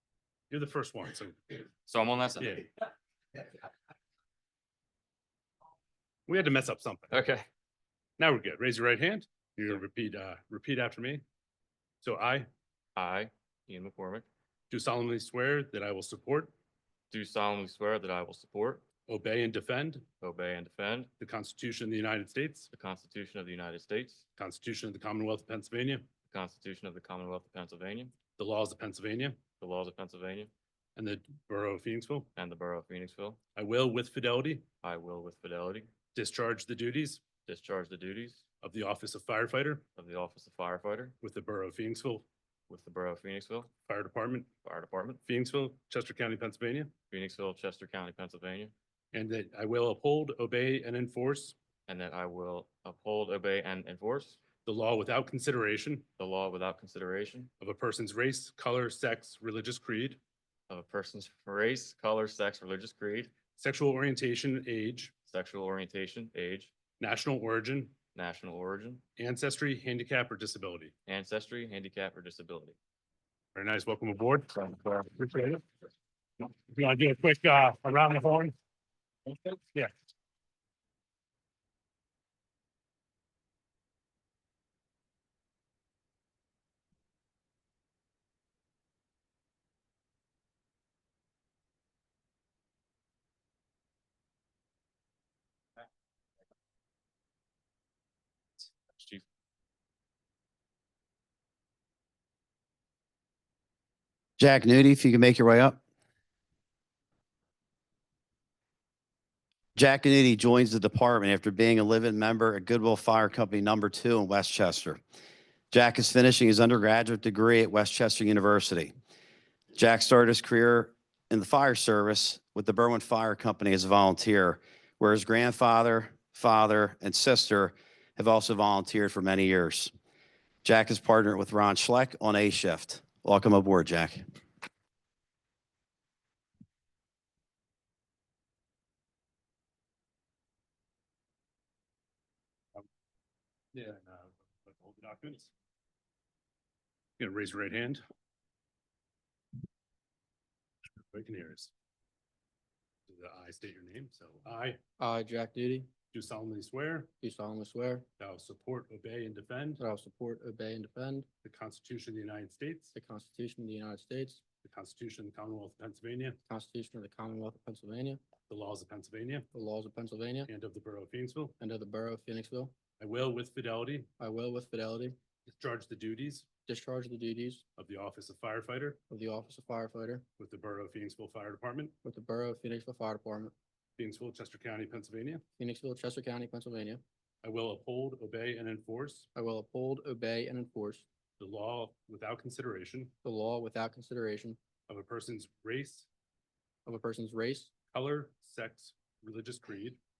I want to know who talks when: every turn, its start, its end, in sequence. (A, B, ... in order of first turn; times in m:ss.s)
0:00.5-0:01.5 A
0:01.8-0:02.6 B
0:06.3-0:07.2 A
0:07.1-0:07.4 B
0:08.2-0:11.2 A
0:12.0-0:12.5 A
0:13.0-0:14.2 B
0:14.7-0:16.5 A
0:17.1-0:18.8 B
0:19.1-0:20.0 A
0:20.2-0:21.1 B
0:21.2-0:22.7 A
0:22.7-0:24.2 B
0:24.4-0:26.0 A
0:26.3-0:28.1 B
0:28.4-0:29.4 A
0:29.6-0:30.5 B
0:31.0-0:32.3 A
0:32.4-0:33.4 B
0:33.6-0:34.7 A
0:34.8-0:35.9 B
0:36.1-0:37.2 A
0:37.4-0:38.4 B
0:38.6-0:39.8 A
0:40.0-0:41.1 B
0:41.2-0:42.2 A
0:42.7-0:43.7 B
0:43.9-0:44.5 A
0:44.6-0:45.2 B
0:45.2-0:46.9 A
0:47.1-0:48.7 B
0:49.1-0:51.6 A
0:51.9-0:54.4 B
0:54.6-0:56.0 A
0:56.2-0:57.5 B
0:57.6-1:00.2 A
1:00.7-1:03.3 B
1:03.6-1:05.1 A
1:05.2-1:06.7 B
1:07.0-1:08.0 A
1:08.1-1:09.0 B
1:09.2-1:10.9 A
1:11.0-1:12.8 B
1:13.5-1:14.5 A
1:14.5-1:15.1 B
1:15.1-1:15.6 A
1:16.4-1:18.5 A
1:19.5-1:19.9 A
1:38.9-1:39.2 B
1:44.4-1:45.8 C
1:49.8-1:55.0 C
1:55.7-1:58.9 C
1:59.7-2:09.9 C
2:10.6-2:14.2 C
2:23.7-2:25.5 A
2:27.2-2:28.0 A
2:31.1-2:31.7 A
2:33.1-2:34.8 A
2:35.0-2:35.9 D
2:36.1-2:37.1 A
2:37.2-2:38.0 D
2:38.2-2:39.8 A
2:39.8-2:41.2 D
2:41.4-2:42.9 A
2:42.9-2:44.4 D
2:44.6-2:46.4 A
2:46.5-2:48.2 D
2:48.5-2:49.5 A
2:49.5-2:50.5 D
2:50.5-2:51.6 A
2:51.6-2:52.7 D
2:53.0-2:54.1 A
2:54.2-2:55.1 D
2:55.5-2:56.4 A
2:56.6-2:57.6 D
2:57.8-2:59.0 A
2:59.1-3:00.2 D
3:00.4-3:01.9 A
3:02.0-3:03.5 D
3:04.0-3:05.4 A
3:05.6-3:07.0 D
3:07.4-3:09.3 A
3:09.3-3:11.0 D
3:11.4-3:13.1 A
3:13.2-3:14.6 D
3:14.9-3:16.1 A
3:16.8-3:17.7 D
3:17.9-3:20.0 A